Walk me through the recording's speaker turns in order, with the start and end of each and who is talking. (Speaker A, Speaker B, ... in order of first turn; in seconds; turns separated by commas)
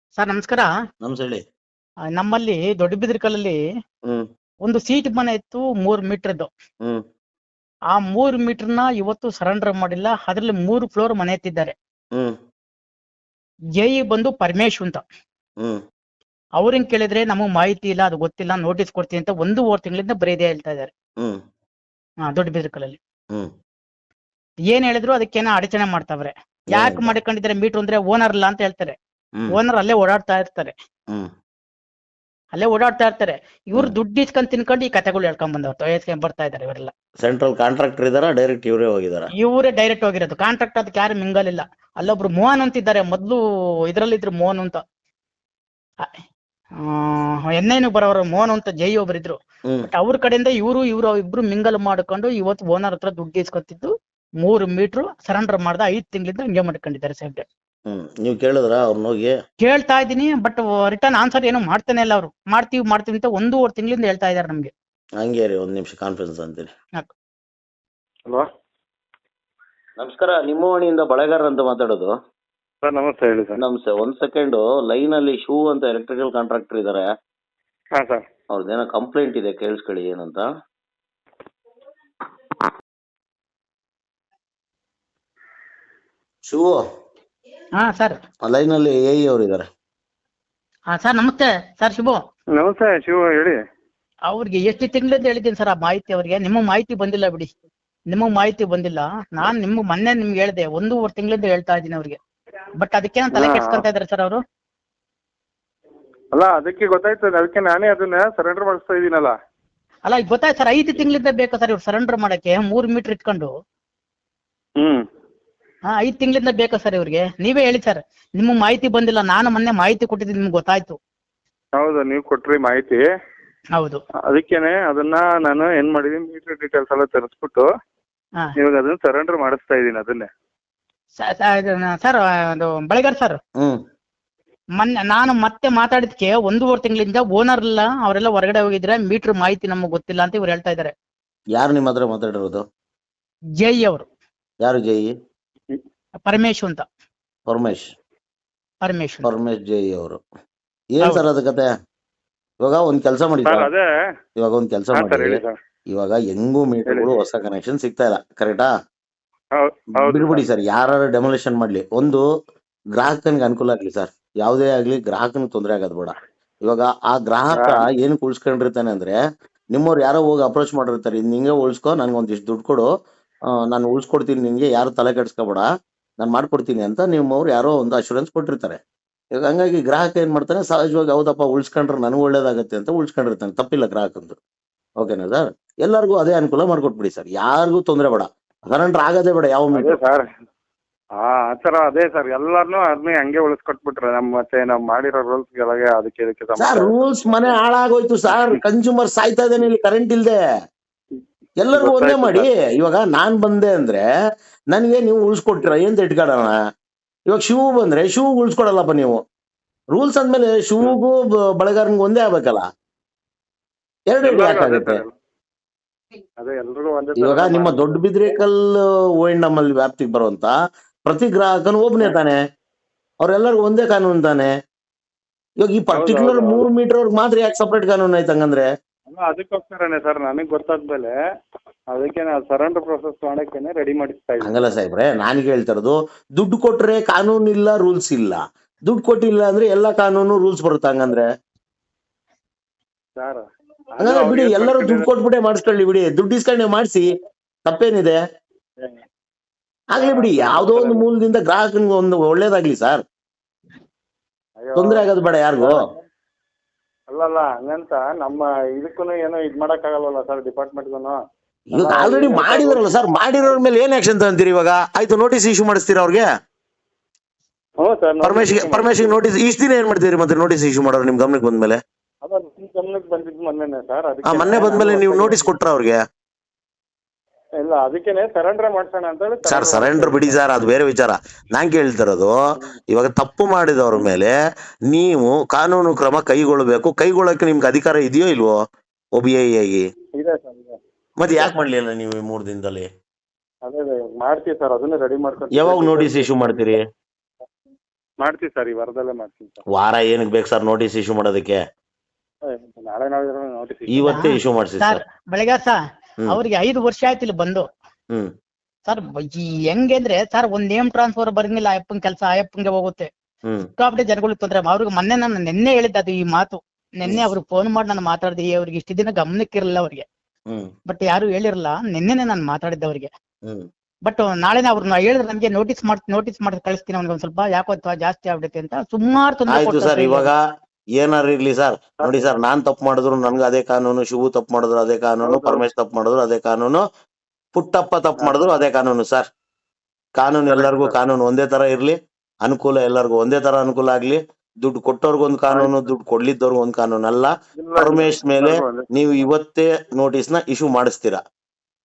Speaker A: 0.2-0.7, Speaker B: 1.0-1.4, Speaker A: 2.1-3.6, Speaker A: 4.6-6.5, Speaker A: 7.9-11.7, Speaker A: 13.8-15.1, Speaker A: 16.6-20.9, Speaker A: 22.2-23.0, Speaker A: 24.7-29.0, Speaker B: 26.7-27.1, Speaker A: 29.5-30.7, Speaker A: 32.5-36.9, Speaker B: 37.2-39.3, Speaker A: 39.4-44.8, Speaker A: 46.8-57.5, Speaker B: 57.9-59.4, Speaker A: 59.6-64.7, Speaker B: 65.2-66.7, Speaker B: 70.0-72.1, Speaker C: 72.8-73.6, Speaker B: 73.6-77.1, Speaker C: 78.0-78.2, Speaker B: 78.5-80.5, Speaker B: 86.5-86.8, Speaker A: 87.8-88.2, Speaker B: 88.5-89.7, Speaker A: 90.9-92.2, Speaker C: 92.5-93.6, Speaker A: 94.3-97.5, Speaker A: 98.1-102.2, Speaker A: 102.8-104.4, Speaker C: 103.3-103.9, Speaker C: 106.3-109.3, Speaker A: 110.1-113.5, Speaker A: 115.9-121.0, Speaker C: 121.8-123.0, Speaker A: 123.8-124.0, Speaker C: 124.3-127.7, Speaker C: 128.6-130.3, Speaker A: 131.2-133.4, Speaker A: 134.8-140.9, Speaker B: 141.6-142.6, Speaker A: 143.6-144.1, Speaker B: 144.6-145.1, Speaker A: 146.2-146.8, Speaker B: 147.5-147.9, Speaker A: 148.8-149.3, Speaker B: 149.2-150.2, Speaker B: 150.9-151.7, Speaker B: 152.6-153.7, Speaker C: 153.4-153.9, Speaker B: 154.4-155.4, Speaker C: 154.9-155.6, Speaker B: 155.9-158.7, Speaker C: 159.5-160.4, Speaker B: 160.0-162.2, Speaker B: 162.9-169.2, Speaker C: 167.5-167.8, Speaker B: 169.7-172.9, Speaker B: 173.7-175.7, Speaker B: 176.2-178.8, Speaker B: 179.4-184.4, Speaker B: 185.0-190.0, Speaker C: 189.7-190.3, Speaker C: 191.2-197.6, Speaker B: 196.6-200.3, Speaker C: 198.3-198.6, Speaker B: 201.6-204.0, Speaker C: 201.7-202.5, Speaker B: 204.7-206.6, Speaker B: 207.3-209.2, Speaker B: 209.9-212.6, Speaker B: 214.1-215.0, Speaker C: 214.2-215.1, Speaker C: 216.4-218.3, Speaker B: 217.2-220.5, Speaker B: 221.1-222.4, Speaker B: 223.2-224.5, Speaker B: 225.6-228.7, Speaker C: 225.9-226.6, Speaker C: 229.1-231.1, Speaker C: 231.9-234.8, Speaker B: 234.4-241.2, Speaker C: 243.2-243.4, Speaker C: 243.9-245.1, Speaker B: 244.0-247.1, Speaker B: 247.6-248.2, Speaker B: 249.9-253.0, Speaker C: 249.9-251.0, Speaker C: 254.6-256.0, Speaker B: 254.8-255.8, Speaker C: 257.1-261.2, Speaker B: 261.7-266.2, Speaker C: 261.7-262.8, Speaker C: 267.8-269.1, Speaker B: 268.2-271.8, Speaker C: 272.2-275.5, Speaker B: 274.2-276.0, Speaker C: 277.6-280.4, Speaker B: 279.4-282.3, Speaker B: 282.9-284.3, Speaker B: 284.9-288.6, Speaker B: 289.1-289.9, Speaker C: 290.1-290.8, Speaker B: 291.2-292.9, Speaker C: 293.6-296.7, Speaker B: 295.5-296.8, Speaker C: 298.2-299.6, Speaker B: 299.7-301.6, Speaker C: 302.4-304.2, Speaker B: 303.9-305.0, Speaker A: 304.1-305.7, Speaker A: 306.3-307.7, Speaker A: 308.9-313.1, Speaker A: 313.8-320.0, Speaker A: 320.9-323.1, Speaker A: 324.0-330.3, Speaker B: 329.5-330.4, Speaker B: 331.0-336.8, Speaker C: 332.0-332.3, Speaker C: 335.2-335.6, Speaker B: 337.5-339.3, Speaker B: 340.2-351.2, Speaker C: 340.5-340.9, Speaker C: 345.5-345.8, Speaker C: 347.6-349.2